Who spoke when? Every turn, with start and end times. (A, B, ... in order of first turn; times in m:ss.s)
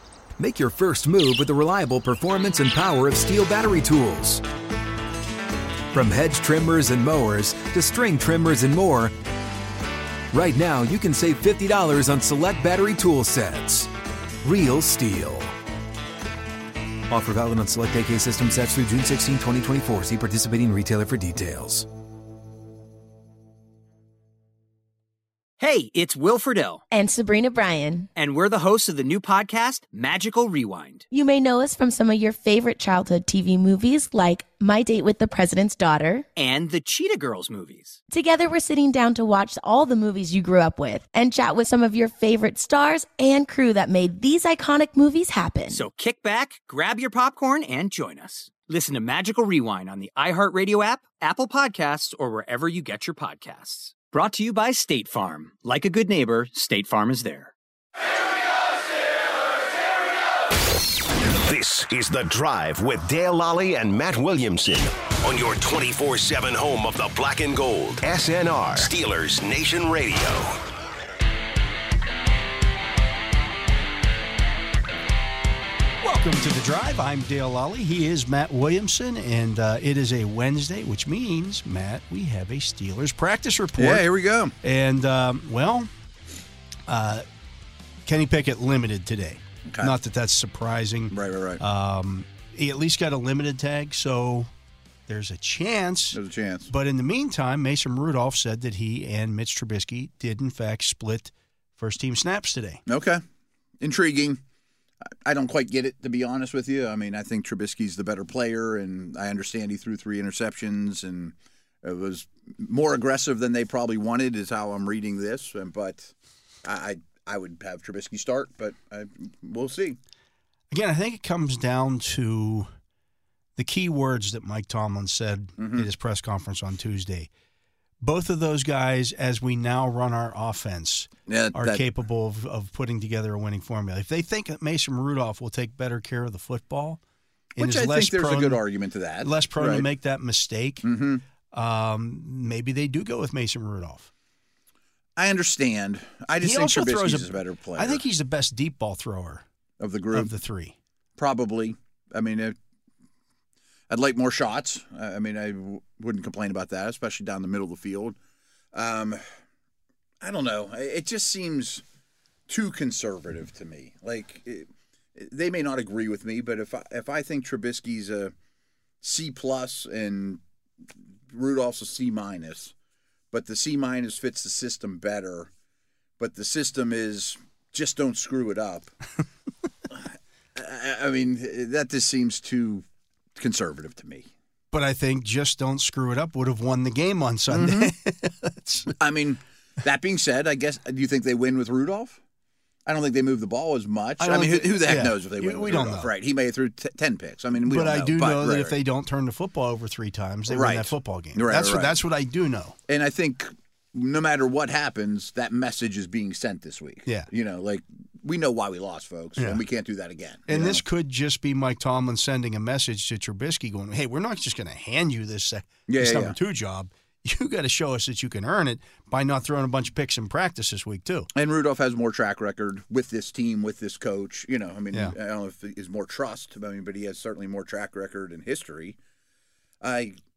0:00.4-0:04.4 A
0:05.9-0:09.1 A
0:10.3-0:13.9 A
0:14.4-0:15.5 A
0:17.1-0:21.9 A
0:25.6-0:26.8 B
0:26.9-0:28.1 C
0:28.2-0:31.0 B
0:31.1-0:36.3 C
0:36.4-0:38.0 B
0:38.1-0:45.8 C
0:45.7-0:57.5 B
1:01.3-1:10.6 D
1:16.0-1:24.1 E
1:23.8-1:24.5 F
1:24.6-1:25.9 E
1:26.9-1:27.2 E
1:28.0-1:34.5 E
1:29.7-1:30.0 F
1:31.1-1:31.6 F
1:35.1-1:42.8 E
1:36.1-1:36.7 F
1:42.9-1:43.2 F
1:43.8-1:44.4 F
1:45.2-2:00.0 F
2:00.7-2:02.7 E
2:03.6-2:07.3 E
2:05.6-2:05.9 F
2:08.0-2:17.0 E
2:11.3-2:11.8 F
2:17.6-2:18.6 E
2:17.6-2:19.8 F
2:19.2-2:20.8 E
2:20.8-2:21.2 F
2:21.5-2:24.1 E
2:25.2-2:28.0 F
2:26.4-2:29.4 E
2:29.8-2:30.3 F
2:30.1-2:30.8 E
2:31.2-2:32.5 F
2:33.9-2:38.2 F
2:38.7-2:39.2 F
2:40.2-2:41.8 F
2:42.5-2:48.3 F
2:49.0-2:50.4 F
2:51.3-2:52.7 F
2:53.3-2:55.5 F
2:56.2-2:58.9 F
2:59.9-3:04.3 F
3:04.7-3:09.0 E
3:07.5-3:07.9 F
3:09.0-3:12.2 F
3:12.8-3:18.8 F
3:14.2-3:16.1 E
3:17.6-3:22.8 E
3:20.5-3:22.0 F
3:22.9-3:30.8 F
3:29.4-3:29.6 E
3:30.5-3:41.3 E
3:35.9-3:36.4 F
3:41.3-3:49.0 F
3:49.8-3:50.2 F